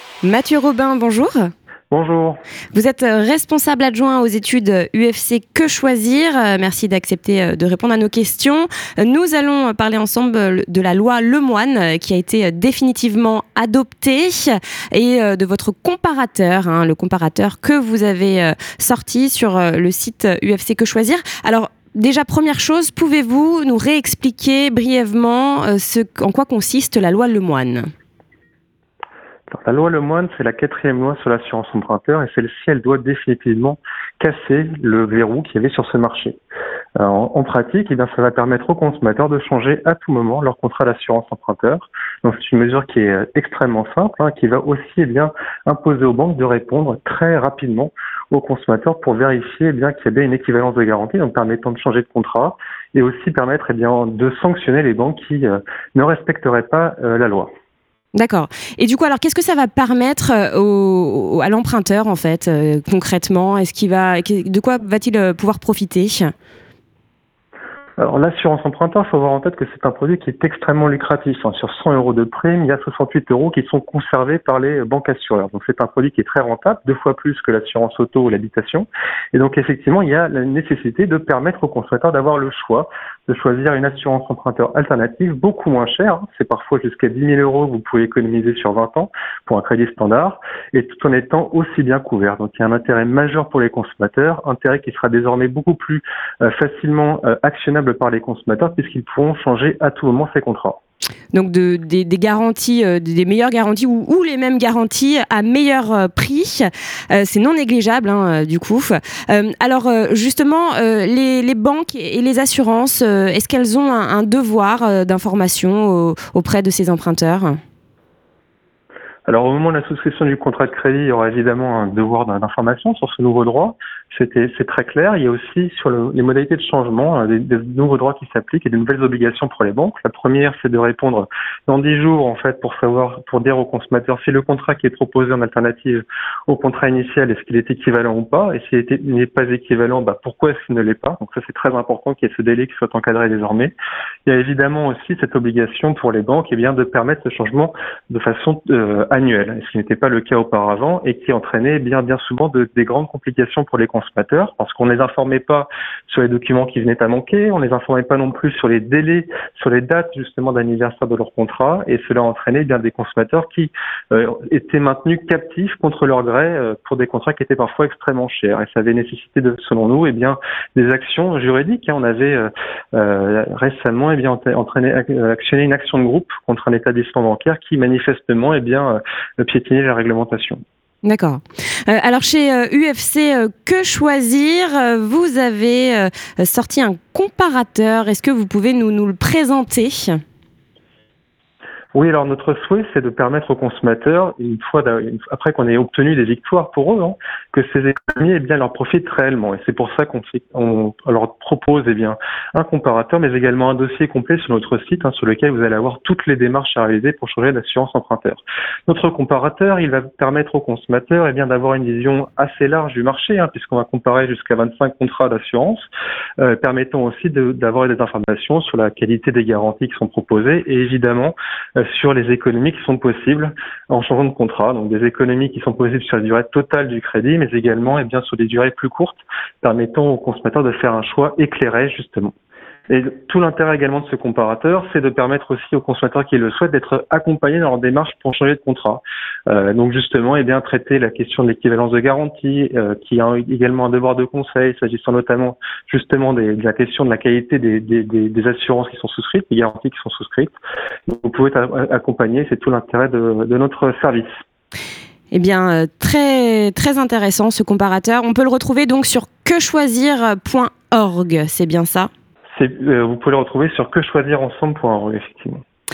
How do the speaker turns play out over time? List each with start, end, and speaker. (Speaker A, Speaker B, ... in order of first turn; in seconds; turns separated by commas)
Speaker A: 0.2-1.5, Speaker B: 1.9-2.4, Speaker A: 2.7-27.9, Speaker B: 29.5-36.4, Speaker B: 37.0-57.5, Speaker A: 58.1-66.3, Speaker B: 68.0-100.8, Speaker A: 101.3-117.6, Speaker B: 119.3-143.7, Speaker B: 144.2-180.6, Speaker A: 181.0-190.2, Speaker B: 191.9-215.8, Speaker B: 216.4-232.3, Speaker B: 232.9-250.5, Speaker B: 251.1-254.4, Speaker A: 255.3-262.1, Speaker B: 262.5-265.6